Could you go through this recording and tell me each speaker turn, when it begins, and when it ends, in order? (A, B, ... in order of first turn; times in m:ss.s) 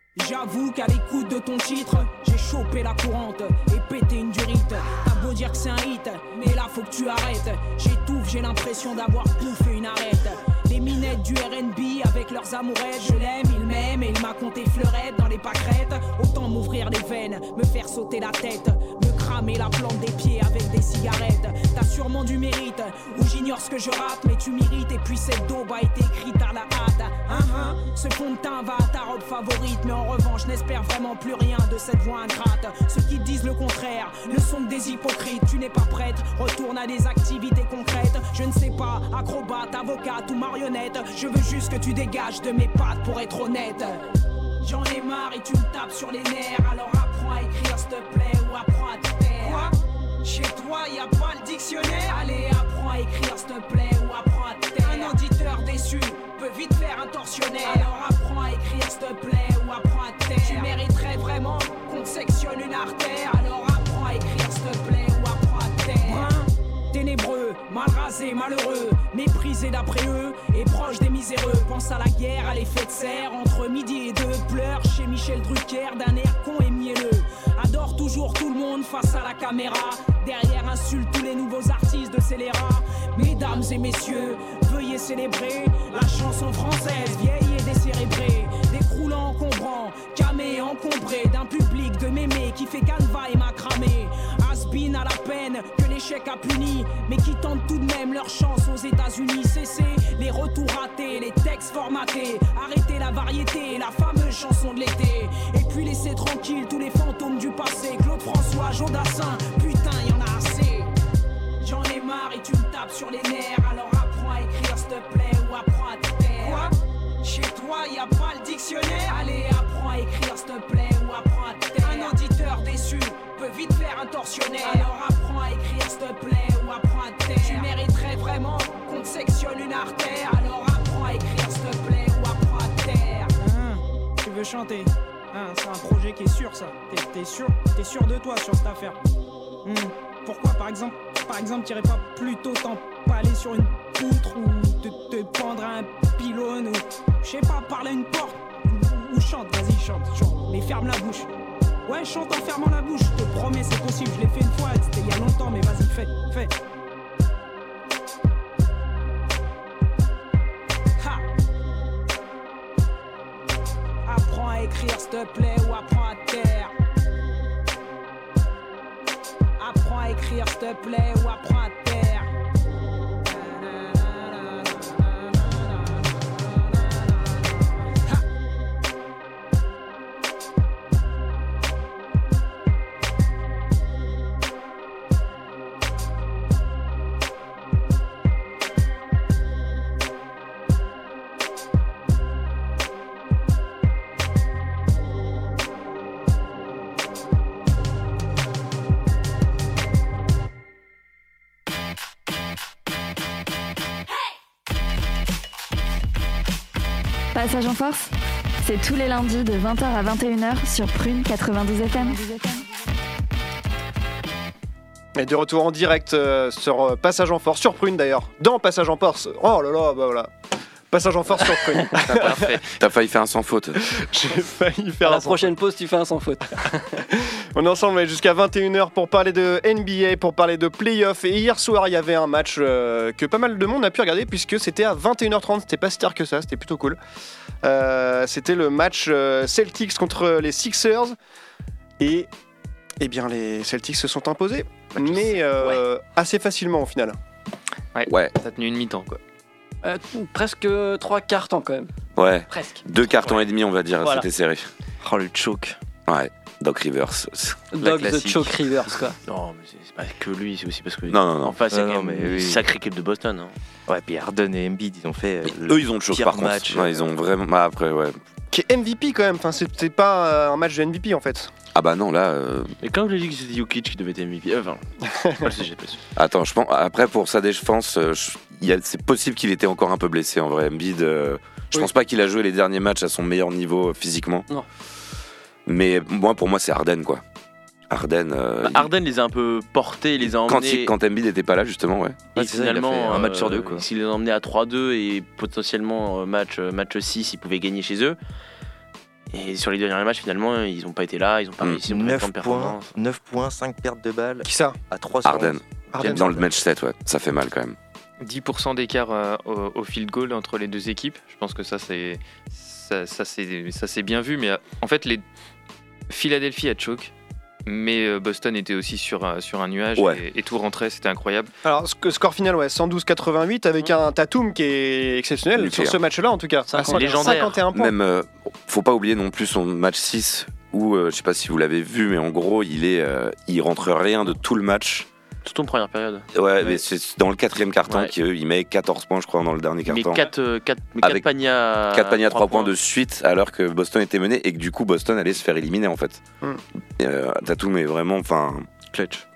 0:00.2-0:44.1 A
0:44.6-1:50.9 A
1:51.6-2:13.5 A
2:20.4-2:20.9 A
2:21.5-2:23.6 A
2:24.1-2:25.8 A
2:26.4-2:28.4 A
2:30.3-2:31.2 A
2:31.9-2:36.3 A
2:41.0-2:41.2 A
2:44.1-2:46.7 A
2:49.6-2:52.3 A
2:53.4-2:54.6 A
3:27.3-3:32.6 B
3:35.2-3:40.3 C
3:40.9-3:42.6 C
3:42.0-3:42.7 D
3:42.2-3:43.8 E
3:43.8-3:45.5 C
3:45.0-3:47.0 F
3:47.1-3:57.0 C
3:57.6-4:01.2 C
4:02.0-4:02.3 C
4:03.0-4:07.2 C
4:05.0-4:05.4 G
4:08.0-4:09.2 D
4:08.1-4:08.3 E
4:09.8-4:11.9 F
4:12.2-4:14.6 E
4:12.5-4:13.3 F
4:14.0-4:14.3 F
4:15.0-4:15.8 H
4:16.1-4:17.6 E
4:17.7-4:19.2 F
4:17.8-4:18.5 H
4:19.2-4:23.6 G
4:21.1-4:21.6 E
4:21.7-4:22.7 H
4:23.9-4:27.0 H
4:25.6-4:28.2 E
4:28.5-4:31.5 C
4:31.7-4:32.7 E
4:32.8-4:34.8 G
4:35.4-4:36.0 G
4:36.2-4:44.4 E
4:45.7-4:47.2 E
4:47.9-4:48.9 E
4:48.6-4:50.9 G
4:50.4-4:52.3 E
4:52.3-4:58.2 G
4:52.4-4:53.8 H
4:59.3-5:02.9 G
5:01.9-5:06.5 H
5:04.4-5:04.8 C
5:05.2-5:07.8 E
5:06.0-5:06.3 C
5:08.2-5:15.2 D
5:16.1-5:17.1 D
5:17.7-5:21.5 D
5:20.0-5:20.2 E
5:21.6-5:28.0 C
5:25.6-5:26.0 E
5:26.7-5:27.5 F
5:26.9-5:27.6 G
5:27.7-5:35.1 E
5:35.4-5:36.7 G
5:36.3-5:40.3 E
5:37.9-5:38.2 G
5:39.9-5:42.7 G
5:41.0-5:41.3 E
5:41.9-5:46.2 E
5:47.0-5:48.7 E
5:48.9-5:49.2 H